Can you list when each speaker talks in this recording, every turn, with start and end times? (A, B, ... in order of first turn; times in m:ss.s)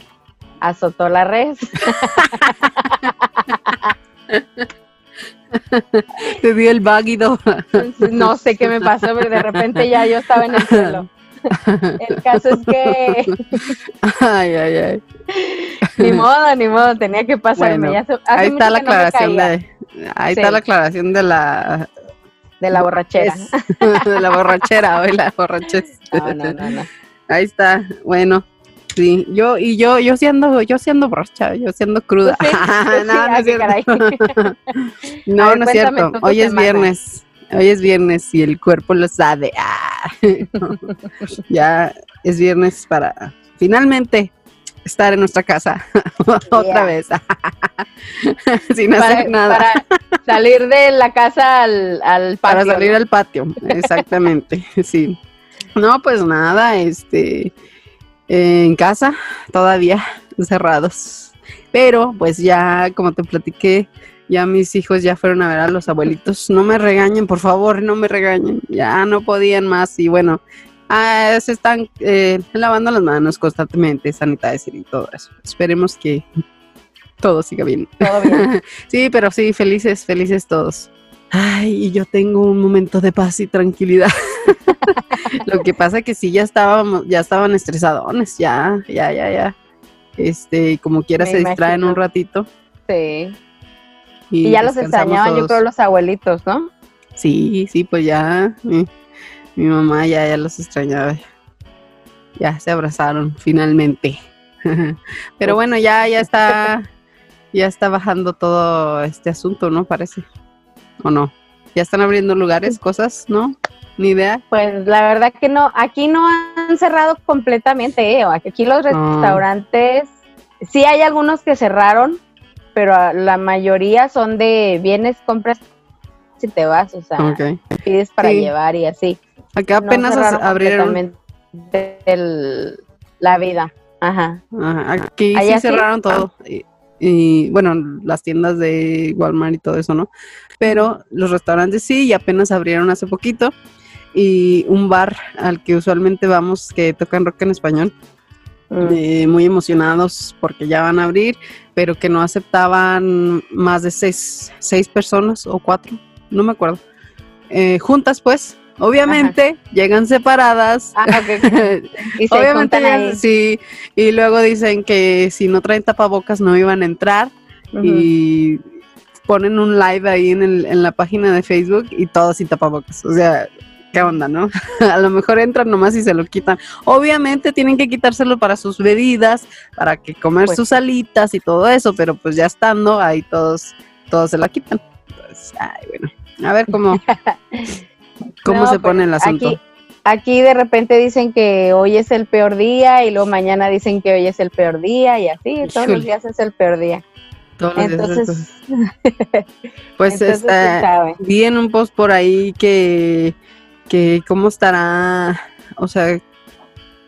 0:00.6-0:03.9 A
0:02.0-0:02.5 B
0:04.3-0:04.6 B
0:05.5-0:09.9 B
0:07.8-0:13.7 A
0:10.4-0:15.0 B
0:15.3-0:19.5 A
0:15.9-0:16.2 B
0:17.6-0:21.9 B
0:20.3-0:20.6 A
0:22.6-0:24.4 A
0:22.7-0:26.7 B
0:26.0-0:26.9 A
0:27.3-0:40.9 B
0:32.2-0:34.4 A
0:35.4-0:36.9 A
0:41.4-0:44.3 B
0:44.8-0:49.9 B
0:46.5-0:46.9 A
0:49.0-0:52.9 A
0:52.4-0:55.2 B
0:53.7-0:54.0 A
0:55.7-0:57.5 B
0:58.3-1:16.2 B
1:17.2-1:29.5 B
1:18.0-1:18.5 A
1:25.2-1:25.4 A
1:30.2-1:32.5 B
1:31.2-1:32.0 A
1:32.9-1:33.4 A
1:34.3-1:35.6 B
1:34.4-1:36.7 A
1:37.2-1:38.9 B
1:39.6-1:41.2 B
1:42.4-1:46.9 B
1:47.5-1:50.2 B
1:51.0-1:54.4 B
1:54.5-2:00.1 A
1:58.9-1:59.4 B
2:00.6-2:02.2 A
2:02.7-2:05.6 A
2:06.4-2:09.2 A
2:07.2-2:07.6 B
2:08.2-2:08.5 B
2:09.6-2:11.0 B
2:09.7-2:14.4 A
2:14.5-2:23.5 B
2:15.3-2:15.9 A
2:24.1-2:27.9 B
2:28.7-2:29.0 A
2:28.8-2:36.8 B
2:37.5-2:48.6 B
2:39.0-2:39.3 A
2:41.0-2:43.2 A
2:47.7-2:48.1 A
2:49.2-3:07.0 B
3:07.1-3:07.8 A
3:08.4-3:09.6 B
3:08.4-3:17.0 A
3:15.6-3:16.1 B
3:17.6-3:18.5 B
3:17.8-3:19.5 A
3:20.0-3:23.4 B
3:20.1-3:21.2 A
3:23.9-3:26.2 B